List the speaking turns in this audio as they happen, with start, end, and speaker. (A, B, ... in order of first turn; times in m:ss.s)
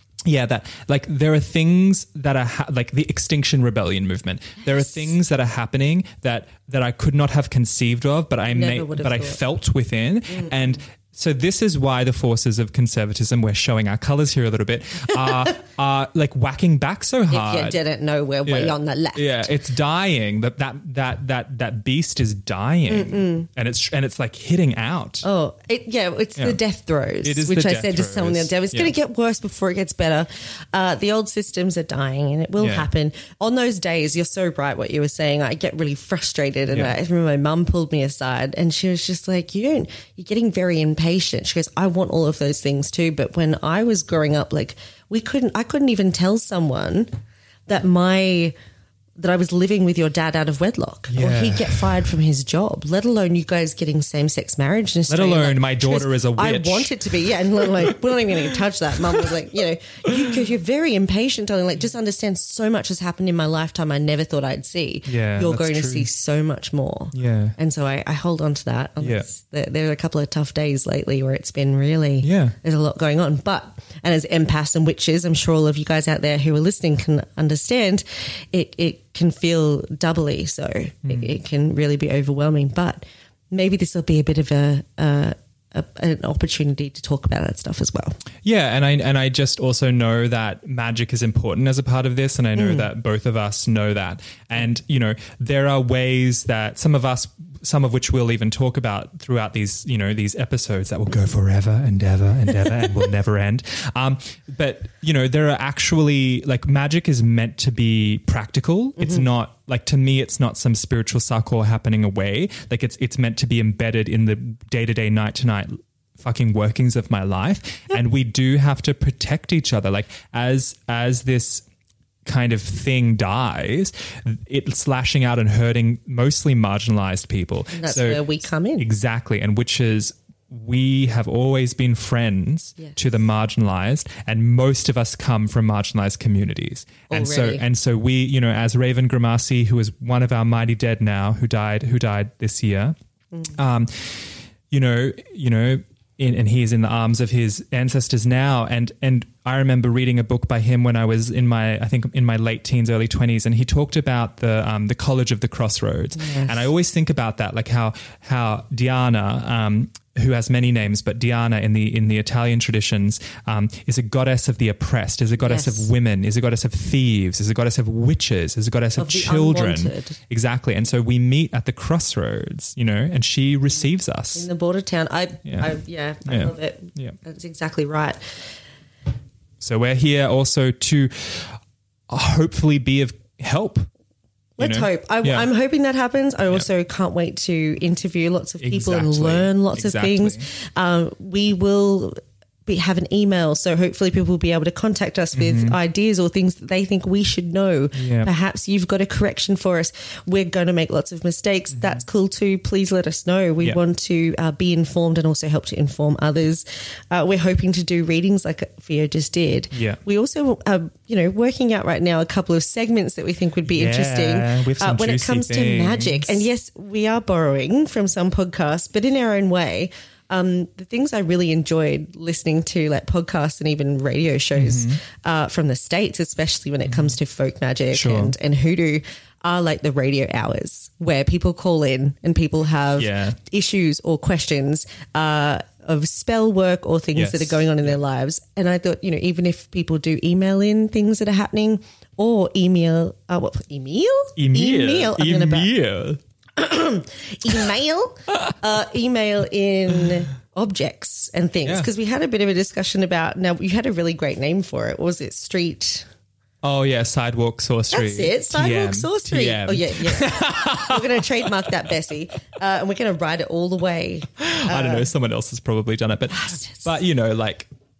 0:00.2-0:17.8 A
0:08.5-0:09.4 B
0:10.3-0:10.7 B
0:17.3-0:19.5 B
0:18.4-0:25.2 A
0:22.9-0:23.5 B
0:25.2-0:47.1 B
0:27.2-0:28.9 A
0:32.6-0:32.9 A
0:36.7-0:37.0 A
0:47.7-0:48.5 B
0:49.2-1:28.2 B
0:51.1-0:52.0 A
0:55.1-0:57.0 A
0:57.6-0:57.9 A
1:05.0-1:06.1 A
1:07.1-1:07.6 A
1:09.0-1:09.3 A
1:12.2-1:12.5 A
1:21.0-1:21.3 A
1:28.4-2:01.6 A
1:32.6-1:32.9 B
2:02.2-2:23.0 A
2:07.7-2:08.9 B
2:17.1-2:17.6 B
2:23.5-2:54.5 A
2:36.2-2:36.7 B
2:45.4-2:45.9 B
2:49.0-2:50.2 B
2:54.3-2:58.4 B
2:55.4-2:55.7 A
2:56.2-2:57.2 A
2:59.6-3:03.9 A
3:04.6-4:05.7 B
3:04.6-3:05.5 A
3:08.6-3:10.5 A
3:15.3-3:15.8 A
3:17.9-3:18.3 A
3:21.7-3:22.0 A
3:29.7-3:30.0 A
3:33.7-3:36.4 A
3:44.5-3:45.0 A
3:46.9-3:47.1 A
3:47.9-3:48.3 A
3:53.0-3:53.4 A
3:57.1-3:58.0 A
4:04.4-4:06.2 A
4:06.6-4:16.1 B
4:11.6-4:11.9 A
4:16.6-4:21.7 A
4:17.9-4:25.1 B
4:24.4-4:27.7 A
4:26.3-4:26.9 B